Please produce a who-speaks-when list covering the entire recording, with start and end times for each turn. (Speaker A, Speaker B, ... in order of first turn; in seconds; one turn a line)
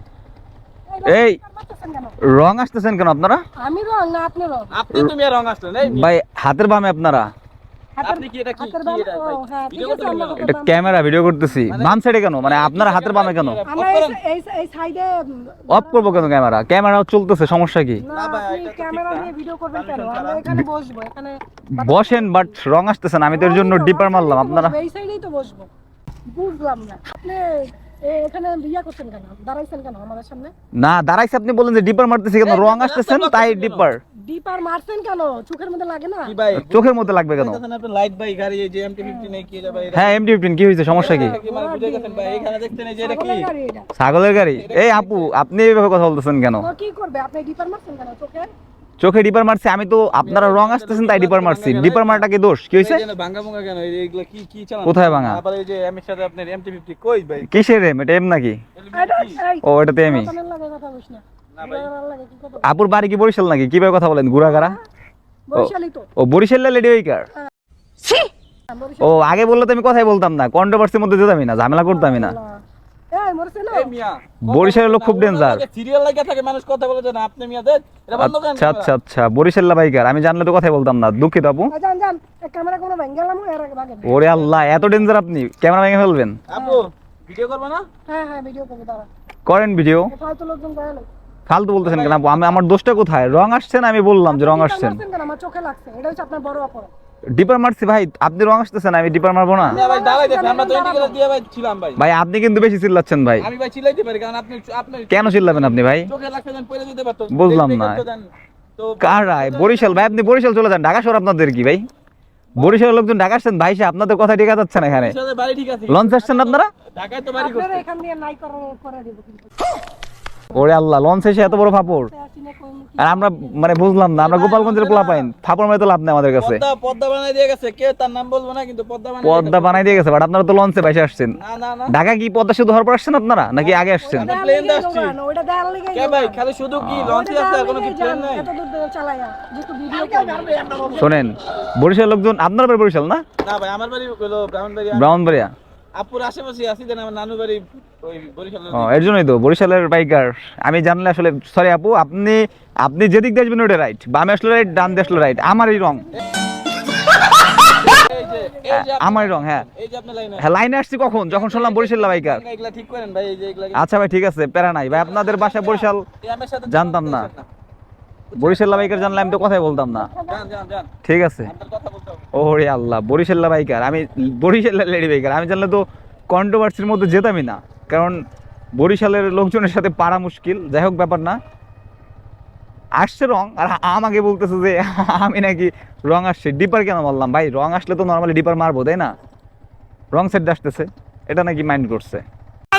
Speaker A: 0.9-2.2
Speaker B: 1.1-1.4
Speaker B: 2.2-3.4
Speaker A: 3.6-4.7
Speaker C: 4.7-6.1
Speaker B: 5.9-7.3
Speaker A: 8.0-11.2
Speaker C: 8.0-10.4
Speaker B: 10.4-13.6
Speaker C: 11.7-14.2
Speaker A: 13.7-16.3
Speaker B: 15.7-18.0
Speaker A: 18.0-22.5
Speaker C: 18.1-20.4
Speaker B: 21.8-24.8
Speaker A: 23.3-25.7
Speaker A: 26.3-30.5
Speaker B: 30.8-34.0
Speaker C: 32.4-33.9
Speaker A: 34.2-36.4
Speaker C: 36.3-40.2
Speaker B: 36.5-37.6
Speaker A: 39.0-39.8
Speaker B: 39.9-41.4
Speaker A: 40.9-43.9
Speaker C: 40.9-43.5
Speaker B: 44.0-46.7
Speaker C: 44.5-45.4
Speaker A: 46.6-48.5
Speaker B: 49.0-53.0
Speaker C: 50.2-57.5
Speaker B: 54.9-55.4
Speaker B: 57.4-58.6
Speaker C: 58.8-59.4
Speaker A: 58.9-62.7
Speaker B: 59.6-60.3
Speaker C: 61.6-61.9
Speaker B: 62.6-64.8
Speaker A: 64.4-64.8
Speaker A: 65.5-66.1
Speaker B: 65.5-67.3
Speaker A: 68.0-69.4
Speaker B: 69.0-72.3
Speaker A: 71.8-72.5
Speaker A: 73.1-73.9
Speaker C: 73.7-78.9
Speaker B: 74.5-75.6
Speaker B: 78.2-81.7
Speaker A: 81.7-84.2
Speaker B: 84.0-86.4
Speaker C: 84.1-85.1
Speaker C: 86.5-87.9
Speaker A: 86.5-86.9
Speaker A: 88.1-89.1
Speaker B: 89.5-90.1
Speaker A: 90.0-91.1
Speaker B: 91.5-95.0
Speaker C: 91.8-92.6
Speaker A: 94.3-96.9
Speaker B: 97.4-99.8
Speaker A: 99.7-101.2
Speaker C: 99.7-102.0
Speaker B: 102.0-103.5
Speaker C: 103.4-110.3
Speaker B: 105.1-106.1
Speaker B: 107.3-108.0
Speaker B: 109.0-111.8
Speaker B: 112.6-115.2
Speaker C: 114.8-117.8
Speaker B: 115.9-116.7
Speaker A: 117.4-119.7
Speaker B: 120.5-122.1
Speaker A: 121.4-124.0
Speaker B: 123.0-126.6
Speaker C: 124.1-125.3
Speaker C: 126.4-130.1
Speaker B: 129.2-131.4
Speaker C: 131.3-131.9
Speaker B: 131.9-134.3
Speaker C: 133.6-135.2
Speaker A: 133.7-136.4
Speaker C: 135.9-138.5
Speaker B: 136.8-137.1
Speaker A: 137.1-141.2
Speaker C: 139.9-141.2
Speaker B: 140.9-143.2
Speaker C: 143.4-145.3
Speaker B: 144.9-145.5
Speaker C: 145.9-149.1
Speaker B: 148.7-156.1
Speaker A: 155.1-156.1
Speaker C: 157.8-160.5
Speaker A: 158.0-158.7
Speaker B: 158.7-159.7
Speaker B: 160.4-162.4
Speaker C: 161.3-163.9
Speaker B: 163.8-166.1
Speaker C: 164.9-167.5
Speaker B: 166.7-167.3
Speaker C: 168.3-168.9
Speaker B: 168.4-170.1
Speaker A: 168.6-170.5
Speaker C: 170.3-170.9
Speaker B: 171.0-171.5
Speaker C: 171.4-172.3
Speaker B: 172.3-178.2
Speaker B: 178.8-181.4
Speaker B: 183.0-189.1
Speaker B: 190.1-192.2